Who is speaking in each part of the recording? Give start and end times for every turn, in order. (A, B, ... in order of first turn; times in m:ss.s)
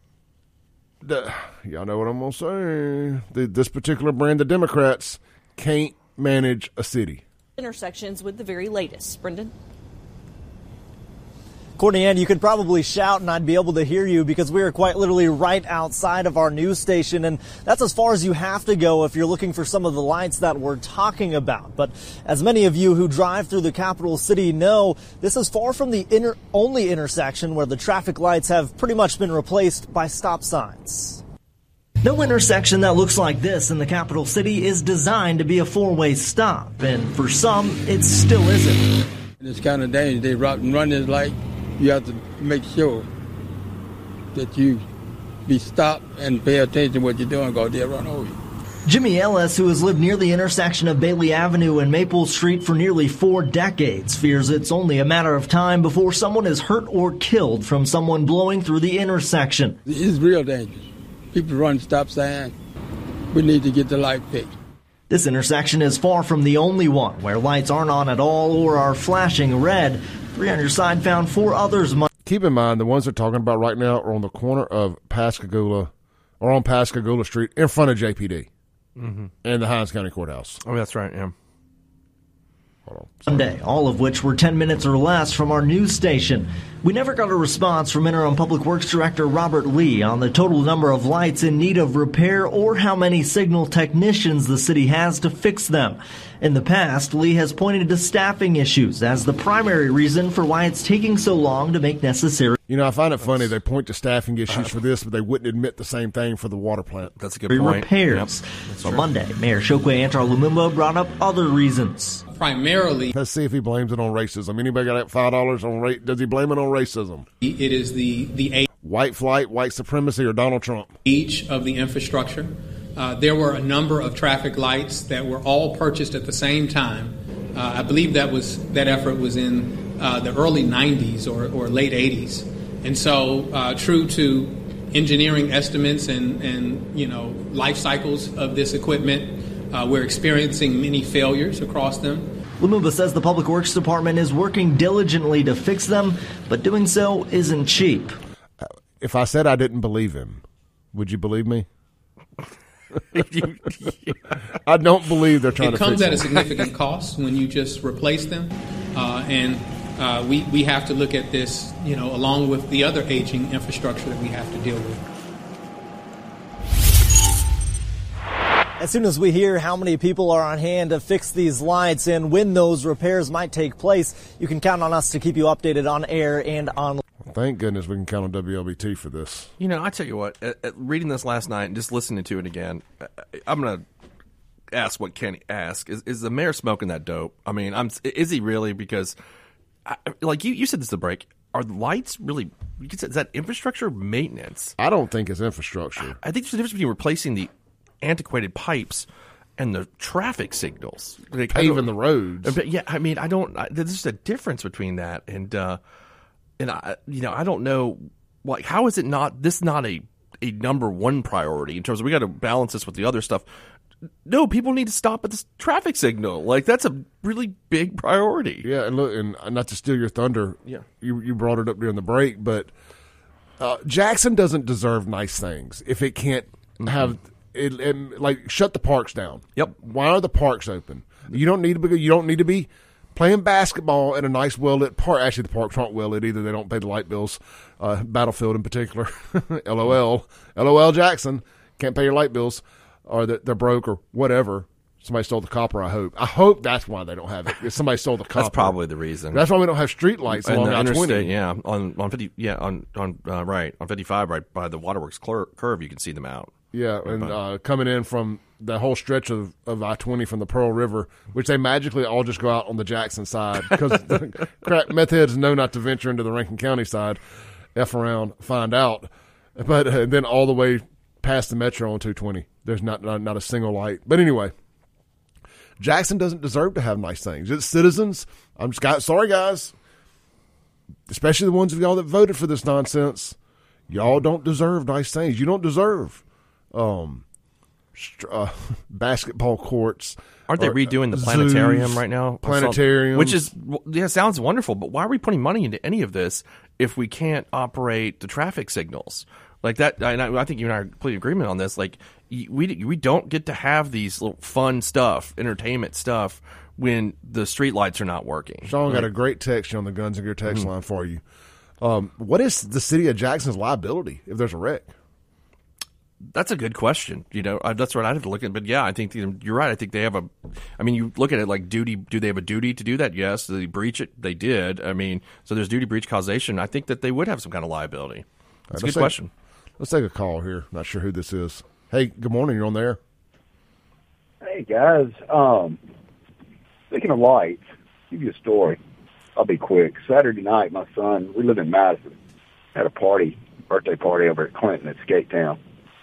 0:01.0-0:07.2 A
0:07.6-0:09.5 B
0:11.8-0:31.2 C
0:32.0-0:38.9 C
0:39.4-0:43.1 D
0:44.3-0:44.8 D
0:45.5-0:48.4 D
0:48.9-0:59.8 C
0:59.8-1:02.5 D
1:03.3-1:04.5 D
1:05.1-1:12.1 C
1:12.2-1:18.5 A
1:19.0-1:19.3 E
1:19.4-1:20.6 A
1:20.6-1:21.3 E
1:22.9-1:23.3 A
1:23.3-1:42.6 C
1:42.7-1:47.1 A
1:47.2-1:49.0 E
1:47.5-1:52.2 C
1:52.3-1:53.2 F
1:53.1-1:57.3 A
1:57.4-1:58.7 F
1:58.8-2:00.9 A
2:01.0-2:22.3 F
2:22.6-2:28.1 C
2:28.6-2:30.4 A
2:30.9-2:31.7 A
2:33.1-2:34.4 E
2:34.6-2:36.5 A
2:35.6-2:45.1 F
2:48.8-2:57.0 C
2:57.3-2:59.5 A
2:59.6-3:03.8 E
3:04.7-3:09.2 E
3:09.8-3:14.8 E
3:14.8-3:16.2 A
3:16.2-3:17.5 E
3:18.0-3:21.9 E
3:21.5-3:22.6 A
3:22.4-3:25.8 E
3:26.6-3:33.5 E
3:34.2-3:38.6 E
3:38.6-3:42.7 A
3:43.6-4:08.8 A
3:46.8-3:47.1 E
4:08.3-4:09.4 E
4:09.3-4:11.3 A
4:10.3-4:16.5 E
4:16.7-4:27.2 A
4:17.0-4:17.4 E
4:23.7-4:24.2 E
4:27.8-4:34.5 A
4:35.8-4:39.8 A
4:41.1-4:43.4 A
4:43.9-4:46.2 A
4:46.7-4:47.2 A
4:48.0-4:53.4 A
4:50.5-5:09.1 E
5:08.6-5:11.2 A
5:11.8-5:14.9 A
5:16.3-5:29.3 E
5:28.7-5:29.2 A
5:29.8-5:33.0 A
5:34.4-5:35.8 G
5:36.9-5:38.8 G
5:39.4-5:42.2 G
5:42.8-5:45.6 G